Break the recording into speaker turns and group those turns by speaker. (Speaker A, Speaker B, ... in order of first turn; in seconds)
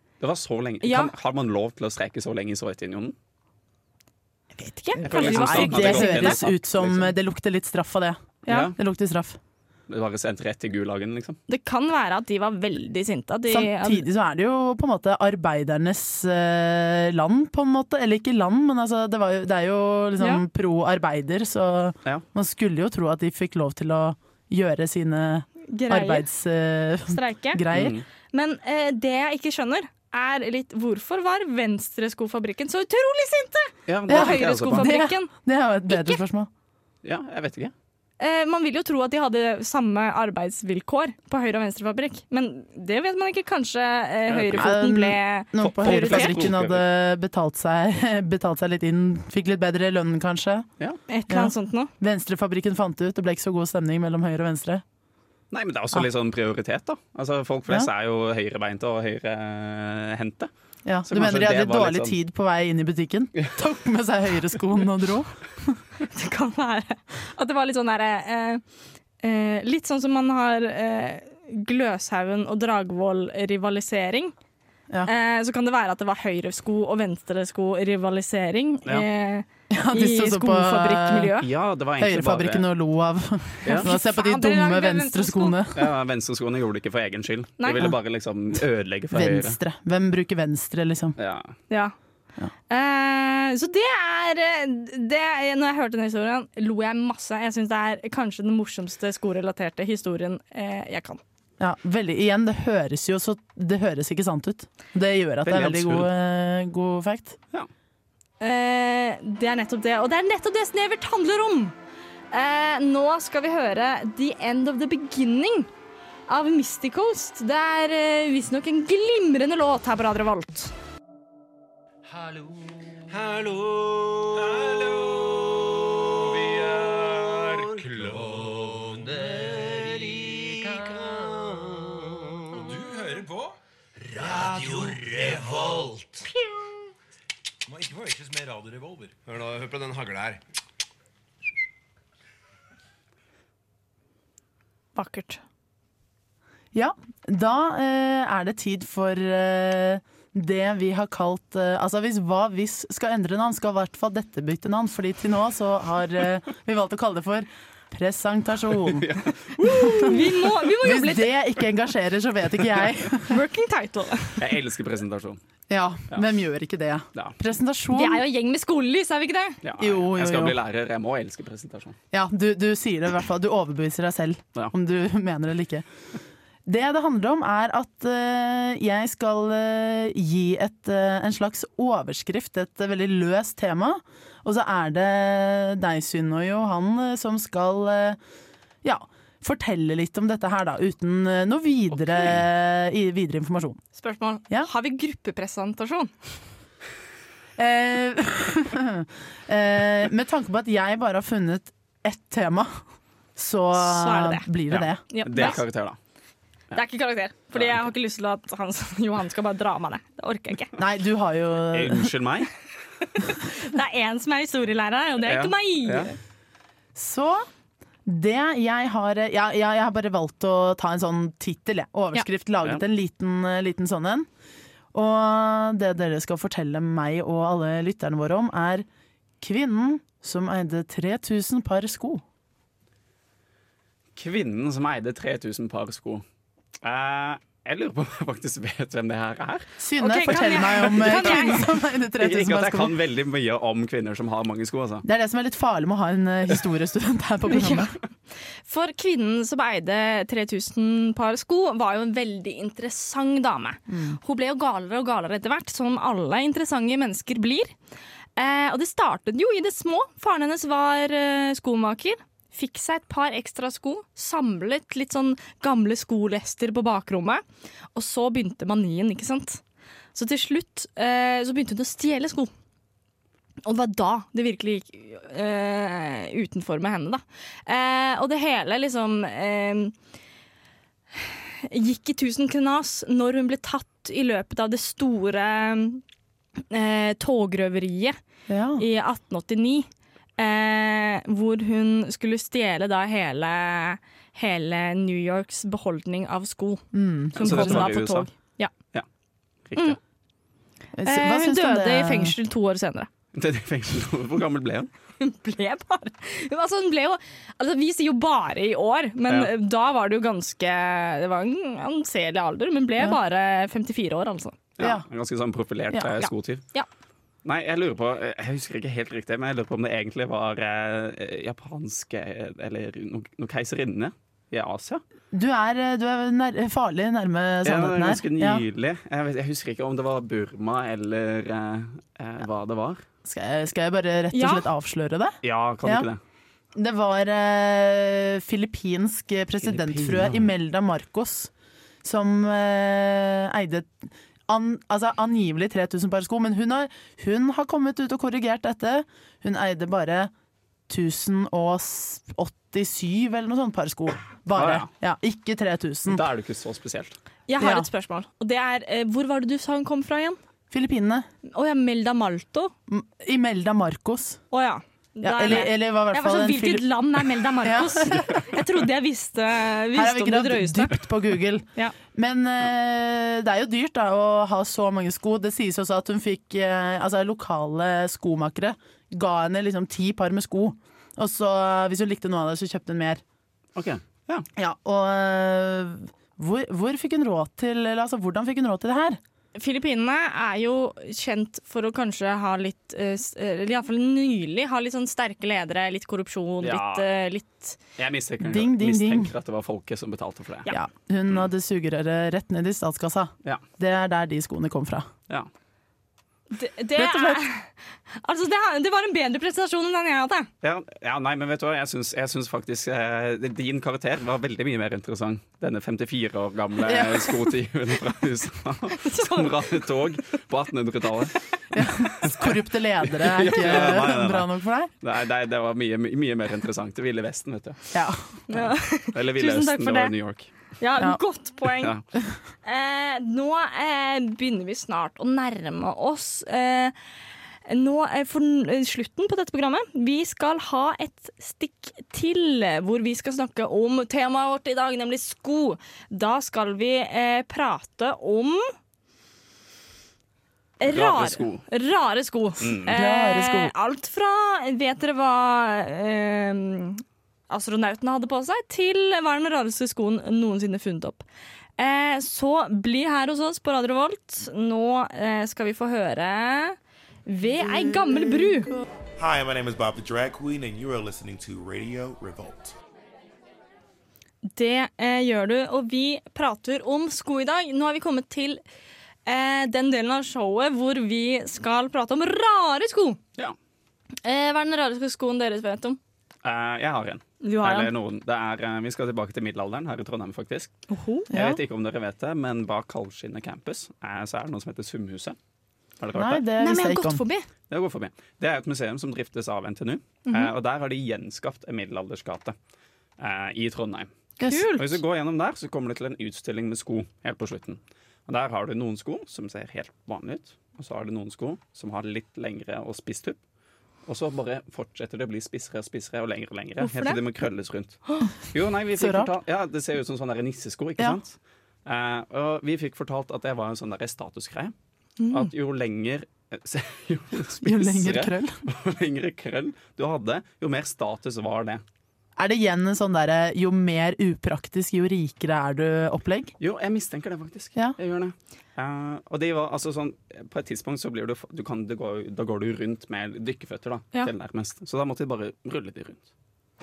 Speaker A: 0.2-3.1, 5.0-7.1, 8.5-8.7, 9.9-11.4, 27.7-28.0, 33.9-34.9, 37.0-37.7, 44.3-44.7, 45.6-46.8, 55.5-60.5, 61.1-62.1, 81.4-82.7, 85.7-89.6, 91.2-91.5, 105.4-106.1, 158.9-159.4, 164.4-165.4, 169.6-171.9, 204.7-206.0, 211.7-212.5, 215.2-216.1, 234.2-236.2, 236.8-239.7, 241.0-241.4, 242.2-245.1, 297.4-298.3, 299.7-300.0, 303.3-304.9, 314.8-316.6, 317.4-325.0, 327.6-333.0, 335.4-336.2, 339.6-340.5, 354.5-354.9, 356.1-357.1, 383.7-384.5, 396.6-397.1, 398.0-400.7, 410.6-421.3, 422.2-422.5, 423.1-424.5, 425.0-427.9, 428.5-430.5, 450.9-451.6, 452.6-452.9, 486.4-490.7, 491.3-495.4, 496.0-496.4, 497.7-502.5, 503.2-504.1, 504.8-513.4, 514.0-524.7, 525.3-531.8, 536.6-546.2
Speaker B: 0.8-1.1, 4.5-6.4, 11.5-14.0, 25.7-26.2, 27.1-27.6, 28.3-35.3, 35.9-36.2, 38.2-46.4, 51.1-51.9, 66.1-68.6, 69.2-74.3, 75.0-81.5, 83.7-85.6, 91.7-91.9, 92.7-101.2, 108.4-111.7, 112.3-115.7, 116.3-120.7, 144.9-145.4, 159.6-161.3, 163.3-164.4, 167.9-169.6, 194.0-196.1, 203.8-204.5, 205.1-205.6, 206.7-210.7, 213.2-216.2, 240.0-241.6, 247.5-247.9, 248.7-257.7, 258.4-267.4, 267.9-269.6, 270.1-272.5, 273.6-279.9, 281.1-286.0, 286.7-288.1, 288.8-289.9, 290.4-298.7, 301.0-303.1, 305.2-314.6, 316.2-316.9, 334.3-334.7, 357.5-360.4, 361.5-362.7, 364.5-371.0, 389.6-397.8, 406.5-410.5, 419.0-419.7, 428.5-430.1, 430.8-431.9, 432.6-436.9, 437.7-448.7, 450.8-461.2, 461.8-468.8, 474.4-478.6, 479.2-483.2, 484.2-486.0, 487.4-487.9, 490.9-491.3, 496.6-497.5, 500.2-500.5, 504.4-504.9, 516.8-517.2, 525.2-525.5
Speaker C: 5.0-9.4, 13.5-28.0, 34.1-36.5, 44.5-50.7, 51.3-54.8, 60.8-65.8, 79.7-81.3, 82.0-85.9, 89.1-91.2, 101.6-107.4, 146.7-159.1, 159.6-163.4, 165.7-168.2, 169.8-170.6, 172.1-175.8, 176.7-188.2, 188.8-193.8, 197.6-202.8, 203.3-205.5, 210.8-212.1, 216.9-217.4, 218.1-224.3, 224.9-228.8, 229.4-232.2, 239.8-242.9, 245.0-247.9, 253.9-254.2, 288.5-288.8, 296.9-297.9, 300.9-302.4, 314.8-315.1, 325.3-328.6, 333.2-336.1, 336.7-341.5, 342.0-350.3, 350.9-356.2, 357.6-357.9, 360.7-361.3, 362.9-364.4, 365.2-366.9, 367.5-368.5, 369.9-383.2, 384.6-389.2, 398.4-399.3, 400.7-405.1, 406.9-407.4, 416.8-417.5, 421.7-424.9, 427.9-428.2, 452.9-453.7, 491.3-491.6, 496.1-497.2, 504.4-504.7, 519.0-519.3, 527.6-528.6, 532.4-536.5
Speaker D: 122.0-136.3, 137.7-140.4
Speaker E: 469.2-472.7